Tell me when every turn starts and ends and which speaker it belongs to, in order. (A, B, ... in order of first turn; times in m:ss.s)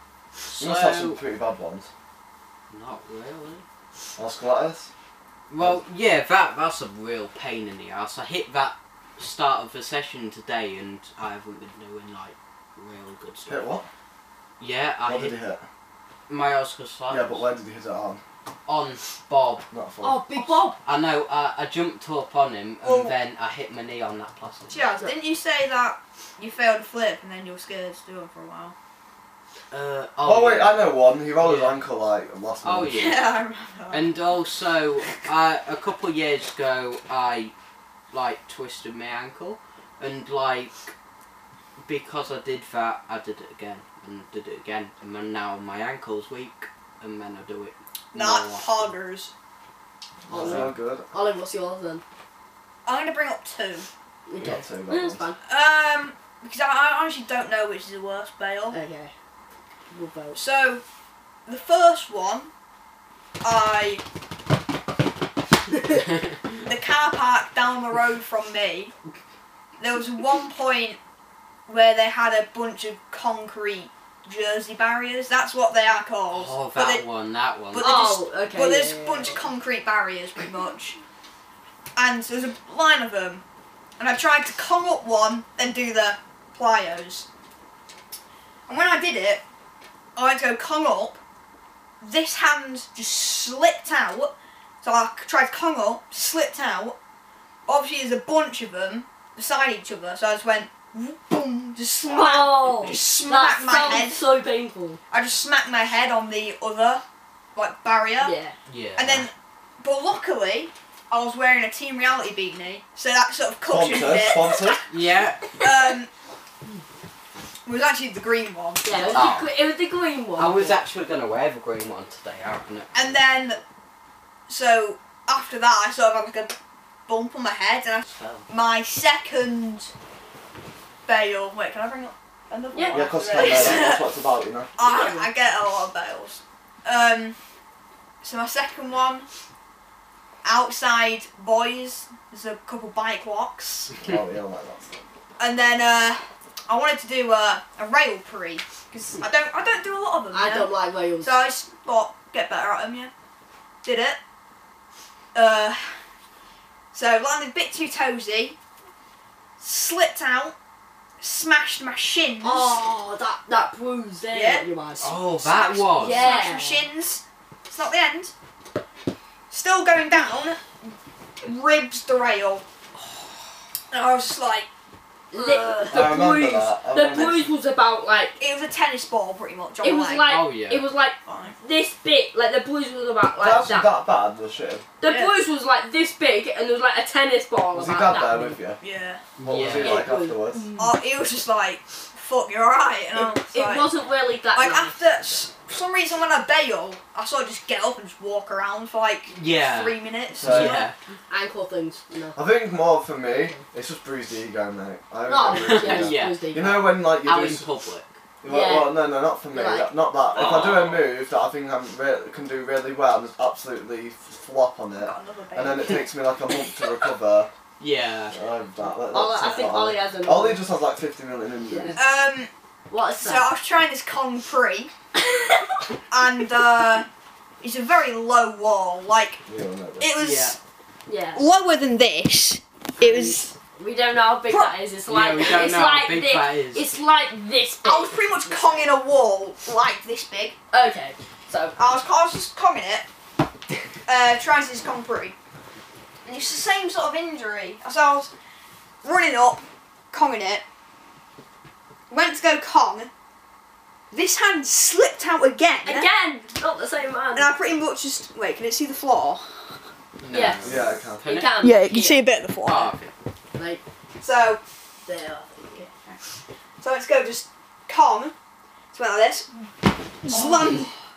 0:00.5-0:01.2 A
0:00.6-0:01.9 B
0:02.7-0:03.6 A
0:04.2-0:04.9 B
0:05.5-0:13.8 A
0:13.5-0:13.8 B
0:14.6-0:15.4 A
0:15.0-0:15.6 B
0:16.3-0:17.4 A
0:17.1-0:18.2 B
0:18.7-0:19.7 A
0:19.7-0:20.2 B
0:20.0-0:20.8 C
0:20.4-0:20.7 D
0:20.8-0:24.8 A
0:22.8-0:23.1 D
0:24.7-0:28.7 D
0:29.7-0:30.8 A
0:30.2-0:33.0 B
0:31.4-0:31.8 A
0:32.6-0:33.3 A
0:32.9-0:34.2 D
0:33.9-0:37.5 A
0:38.1-0:40.9 A
0:41.8-0:48.9 A
0:48.1-0:49.3 D
0:50.3-0:50.7 A
0:50.3-0:51.0 B
0:50.4-0:52.0 C
0:52.8-0:53.9 D
0:54.3-0:55.4 C
0:54.4-0:55.2 B
0:55.4-0:58.8 D
0:58.7-0:59.1 C
0:59.9-1:00.4 C
1:00.3-1:00.8 D
1:01.5-1:02.5 D
1:03.4-1:04.0 D
1:06.6-1:08.9 D
1:09.8-1:11.0 D
1:11.7-1:17.0 D
1:16.3-1:17.9 A
1:17.7-1:21.0 D
1:17.8-1:19.4 C
1:21.9-1:23.4 D
1:24.0-1:27.3 D
1:28.7-1:29.4 D
1:30.2-1:31.2 D
1:32.0-1:37.0 D
1:37.7-1:44.2 D
1:42.1-1:45.0 C
1:45.1-1:47.0 D
1:47.5-1:48.3 D
1:48.2-1:48.6 C
1:48.7-1:49.2 A
1:49.0-1:54.7 D
1:53.7-1:54.8 B
1:54.3-1:54.8 C
1:54.9-1:55.5 A
1:55.6-1:56.1 D
1:57.6-1:59.3 D
1:58.8-2:00.8 C
1:59.1-1:59.5 A
2:00.4-2:03.0 A
2:02.9-2:03.6 D
2:04.5-2:06.5 D
2:07.1-2:09.9 D
2:08.0-2:08.5 A
2:11.0-2:14.0 D
2:12.7-2:13.8 C
2:12.9-2:14.7 B
2:14.8-2:17.4 D
2:14.8-2:15.3 C
2:18.2-2:19.3 D
2:20.4-2:23.9 D
2:24.0-2:25.0 B
2:25.4-2:33.1 D
2:30.3-2:31.4 C
2:33.8-2:34.2 D
2:35.3-2:36.0 D
2:36.9-2:38.6 D
2:39.6-2:40.5 D
2:41.2-2:42.8 D
2:42.4-2:45.1 C
2:44.3-2:48.3 D
2:45.0-2:46.3 A
2:46.0-2:46.9 C
2:49.5-2:50.6 D
2:51.4-2:52.6 D
2:53.9-2:54.7 D
2:55.3-2:56.1 D
2:55.3-2:58.4 C
2:55.9-2:57.5 B
2:58.4-3:00.3 D
2:59.8-3:03.9 C
3:00.2-3:00.8 A
3:01.2-3:01.6 D
3:03.4-3:04.9 B
3:05.0-3:08.6 C
3:05.0-3:05.3 D
3:07.7-3:08.8 B
3:08.8-3:09.2 D
3:09.4-3:10.1 A
3:09.4-3:10.6 B
3:09.5-3:11.0 C
3:10.8-3:13.9 D
3:13.1-3:15.0 C
3:14.5-3:20.9 D
3:19.3-3:20.9 A
3:20.4-3:20.8 B
3:21.3-3:22.4 C
3:22.3-3:27.6 B
3:23.3-3:23.6 C
3:25.2-3:27.0 C
3:25.4-3:26.4 A
3:27.2-3:28.2 A
3:28.4-3:37.5 B
3:28.4-3:29.0 C
3:29.5-3:29.9 C
3:30.3-3:31.1 A
3:35.0-3:36.1 D
3:37.8-3:38.4 A
3:38.3-3:42.0 B
3:39.1-3:40.6 C
3:41.7-3:42.0 C
3:41.9-3:42.5 D
3:42.9-3:43.5 C
3:43.2-3:44.9 D
3:46.1-3:47.1 D
3:47.6-3:49.4 D
3:49.5-3:50.1 B
3:50.0-3:50.6 D
3:50.2-3:50.6 A
3:51.0-3:51.5 C
3:51.3-3:53.5 D
3:53.0-3:58.6 C
3:54.5-3:54.7 D
3:55.1-3:56.8 A
3:57.8-4:00.6 D
4:00.7-4:01.8 C
4:01.8-4:03.1 D
4:04.1-4:05.3 D
4:06.2-4:08.3 D
4:09.0-4:10.6 D
4:12.1-4:13.1 D
4:14.1-4:16.1 D
4:15.8-4:17.5 C
4:17.3-4:19.7 D
4:20.2-4:21.5 A
4:20.3-4:22.2 C
4:20.6-4:21.2 B
4:21.6-4:22.9 D
4:22.6-4:23.1 A
4:23.6-4:23.8 C
4:24.2-4:24.6 D
4:25.0-4:25.9 C
4:26.8-4:28.3 D
4:28.9-4:30.9 D
4:30.3-4:30.7 C